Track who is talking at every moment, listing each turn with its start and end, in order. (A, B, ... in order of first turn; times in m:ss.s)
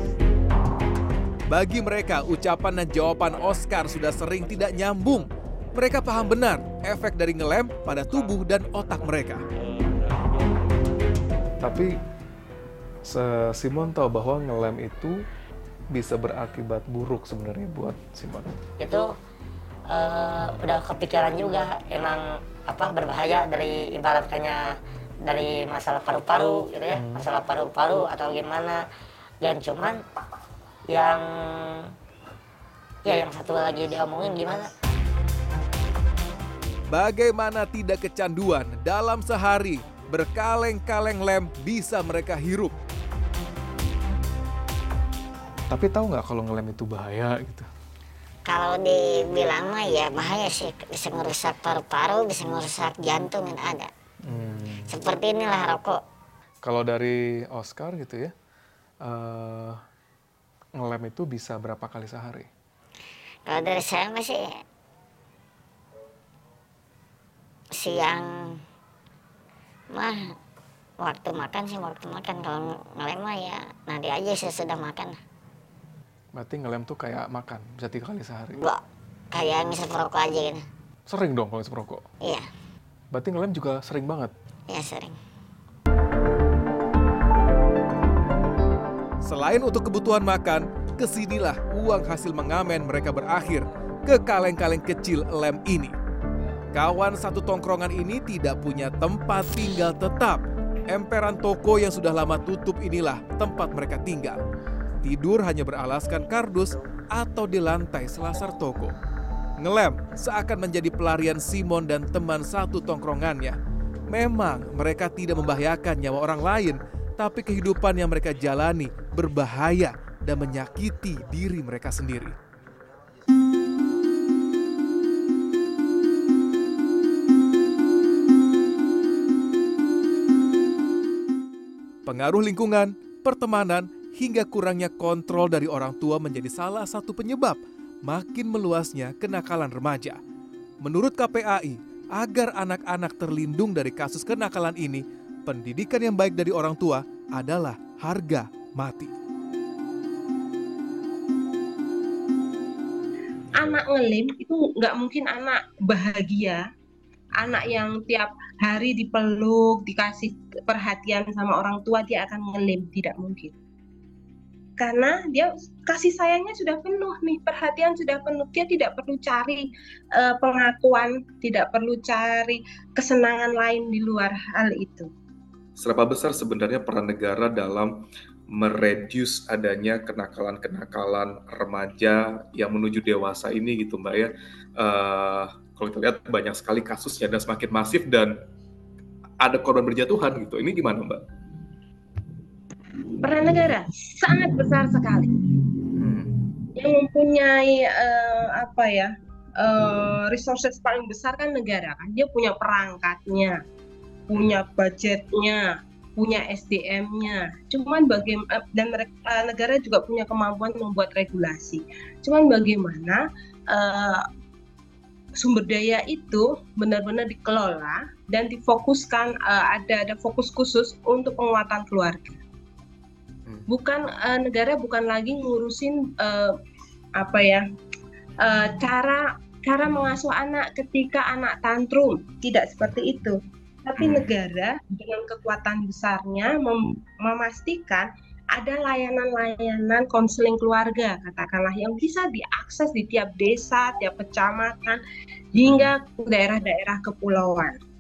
0:01.5-0:09.4 A
0:11.6-0:11.9 B
0:13.1-0:15.2 B
0:15.9-0:18.5 B
0:18.8-0:19.1 C
0:19.9-0:24.7 C
0:25.2-0:28.8 C
0:26.9-0:27.2 B
0:29.4-0:30.0 C
0:30.9-0:31.9 C
0:33.0-0:34.7 C
0:36.9-0:42.8 A
0:45.7-0:47.7 B
0:48.5-0:53.9 D
0:54.3-0:55.0 B
0:54.9-0:56.0 D
0:56.6-0:58.3 B
0:59.0-0:59.8 B
1:00.8-1:02.5 B
1:03.5-1:04.5 D
1:07.8-1:08.6 D
1:09.9-1:10.3 D
1:11.0-1:15.2 D
1:16.4-1:18.6 B
1:18.6-1:20.6 D
1:21.1-1:22.0 B
1:23.1-1:24.3 B
1:24.7-1:25.2 D
1:29.2-1:36.0 A
1:36.7-1:44.4 A
1:45.0-1:48.9 A
1:49.6-1:53.6 A
1:54.1-2:02.4 A
2:12.1-2:20.2 A
2:20.8-2:29.1 A
2:33.6-2:36.6 E
2:37.4-2:43.5 E
2:44.8-2:55.1 E
2:55.8-2:58.0 F
2:58.6-3:08.4 F
3:09.4-3:11.2 F
3:13.2-3:15.4 E
3:16.0-3:16.3 F
3:16.8-3:23.6 E
3:24.3-3:34.2 E
3:24.3-3:24.6 F
3:35.4-3:42.4 E
3:43.7-3:46.6 E
3:47.2-3:47.6 E
3:48.4-4:05.0 E
3:54.0-3:54.3 F
4:05.5-4:07.8 E
4:05.6-4:05.9 F